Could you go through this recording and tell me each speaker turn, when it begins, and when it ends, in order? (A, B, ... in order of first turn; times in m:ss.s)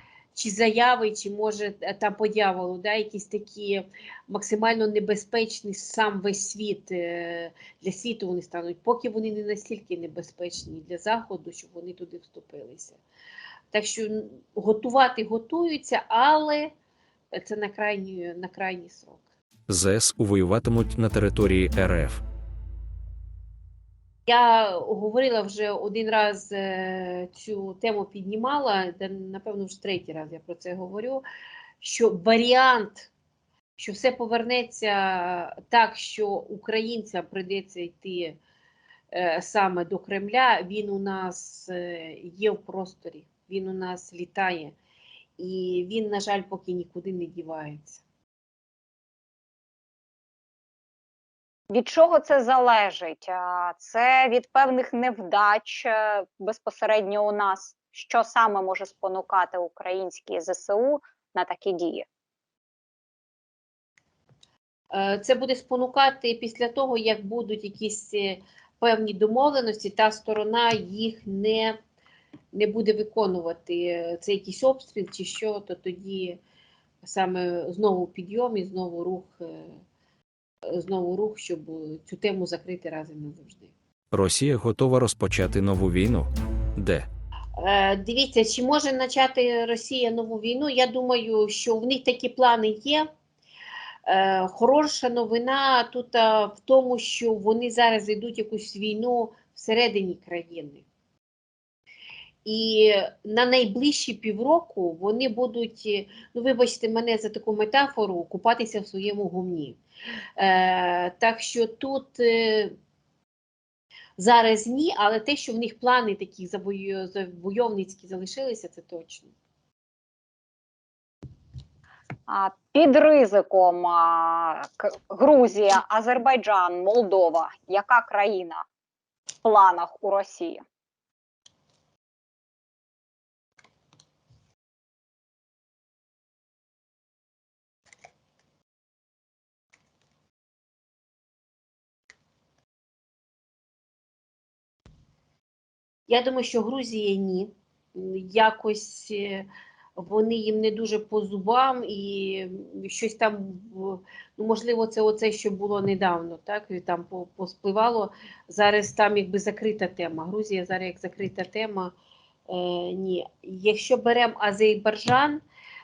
0:00.3-0:13.0 A
0:13.7-0:16.7 A
0:17.3-0:19.2 A
0:19.7-0:22.2 B
0:24.3-0:31.2 A
0:31.8-0:33.1 A
0:33.8-0:38.4 A
0:39.1-0:44.8 A
0:45.4-0:48.0 A
0:51.7-1:02.1 C
1:04.9-1:11.8 A
1:12.5-1:16.4 A
1:17.0-1:19.7 A
1:20.7-1:23.7 A
1:24.1-1:27.1 B
1:27.6-1:33.1 A
1:34.1-1:40.8 A
1:42.4-1:49.8 A
1:50.4-1:52.8 A
1:54.2-1:59.3 A
2:02.3-2:08.6 C
2:09.4-2:10.6 C
2:26.1-2:41.9 A
2:42.5-2:45.4 A